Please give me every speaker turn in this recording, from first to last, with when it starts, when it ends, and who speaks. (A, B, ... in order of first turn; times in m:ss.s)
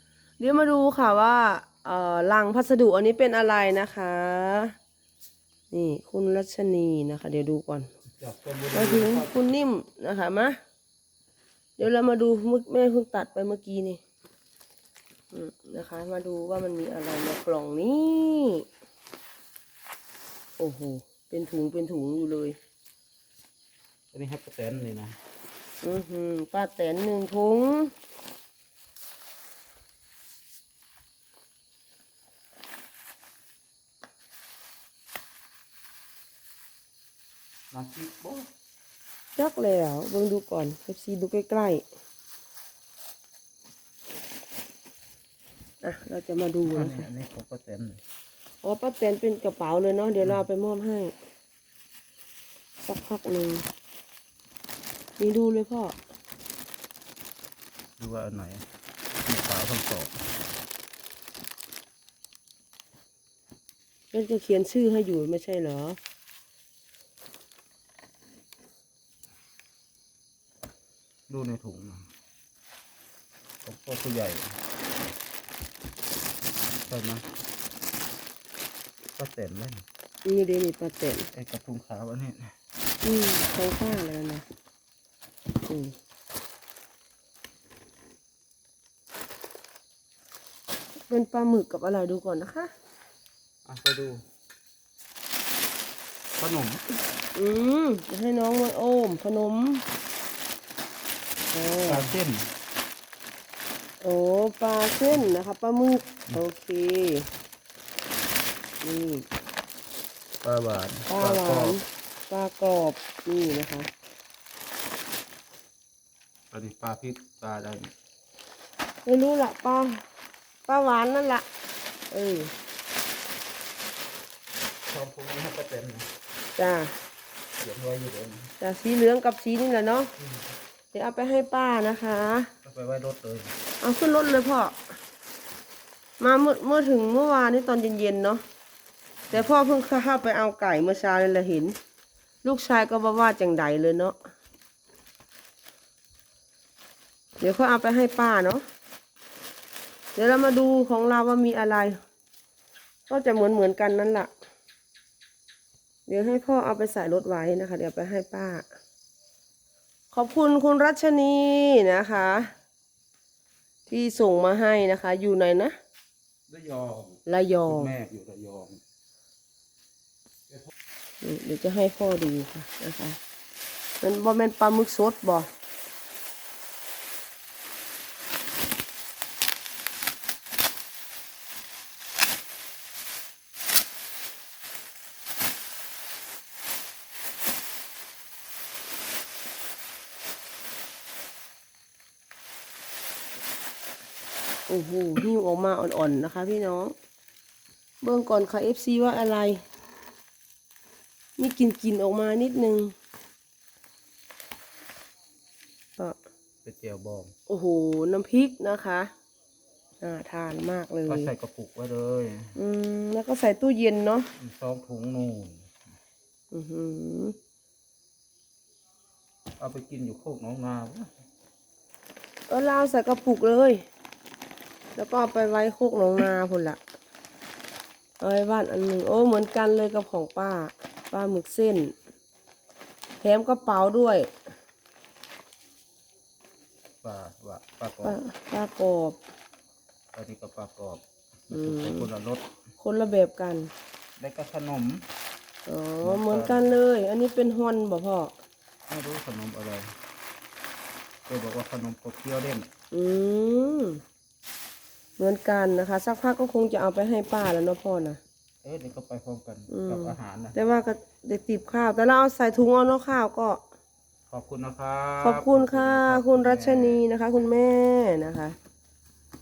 0:00.4-0:04.8 A
0:05.7-0:07.9 A
0:08.2-0:09.3 B
0:08.7-0:10.6 A
0:11.8-0:14.0 A
0:15.3-0:18.6 A
0:20.6-0:22.6 A
0:24.1-0:25.2 B
0:25.8-0:27.9 A
0:37.7-0:38.5 B
0:39.4-0:41.8 A
0:45.8-0:47.1 A
0:46.6-0:48.0 B
0:48.6-0:51.1 A
0:52.8-0:53.7 A
0:55.2-0:56.0 A
0:58.0-0:58.6 B
0:59.2-1:00.2 B
1:04.1-1:06.0 A
1:11.3-1:12.1 B
1:13.6-1:14.6 B
1:16.8-1:17.2 B
1:19.2-1:19.8 B
1:20.2-1:21.3 A
1:21.3-1:22.5 B
1:23.0-1:24.4 A
1:25.6-1:26.0 A
1:31.1-1:32.7 A
1:33.6-1:34.2 B
1:36.4-1:36.8 B
1:37.4-1:39.8 A
1:41.5-1:42.1 A
1:41.9-1:42.5 B
1:44.0-1:47.3 A
1:48.8-1:49.2 A
1:50.4-1:51.8 B
1:51.1-1:53.9 A
1:56.5-1:57.9 B
1:59.0-2:00.0 A
2:00.7-2:01.5 A
2:02.1-2:02.5 A
2:04.9-2:06.1 B
2:06.6-2:06.9 A
2:07.6-2:08.5 B
2:08.6-2:10.1 A
2:10.2-2:10.5 B
2:10.9-2:12.5 A
2:12.6-2:13.5 B
2:13.8-2:14.8 A
2:16.2-2:18.4 A
2:19.3-2:21.8 A
2:22.4-2:24.2 A
2:27.4-2:28.6 A
2:30.2-2:32.0 A
2:33.1-2:34.3 A
2:36.1-2:38.7 A
2:40.1-2:42.5 A
2:43.9-2:45.8 A
2:46.5-2:48.8 B
2:47.3-2:47.9 A
2:51.2-2:53.2 A
2:54.0-2:55.5 A
3:14.7-3:16.9 A
3:18.0-3:19.6 A
3:21.4-3:22.9 A
3:26.6-3:27.3 B
3:27.5-3:29.1 A
3:30.0-3:31.3 A
3:31.1-3:32.6 B
3:32.6-3:34.3 A
3:34.4-3:35.7 B
3:36.5-3:37.4 A
3:39.6-3:41.1 B
3:42.5-3:43.8 A
3:45.0-3:46.8 A
3:48.2-3:51.9 A
3:53.2-3:54.3 A
3:57.0-3:58.2 B
3:58.0-3:59.2 A
4:00.1-4:02.5 B
4:01.5-4:02.1 A
4:02.8-4:03.7 A
4:04.2-4:05.0 B
4:05.7-4:08.3 A
4:06.0-4:06.7 B
4:08.9-4:09.9 B
4:11.3-4:12.7 B
4:12.9-4:14.0 A
4:15.2-4:18.2 A
4:18.6-4:20.6 B
4:19.7-4:23.6 A
4:24.3-4:27.0 B
4:25.2-4:28.6 A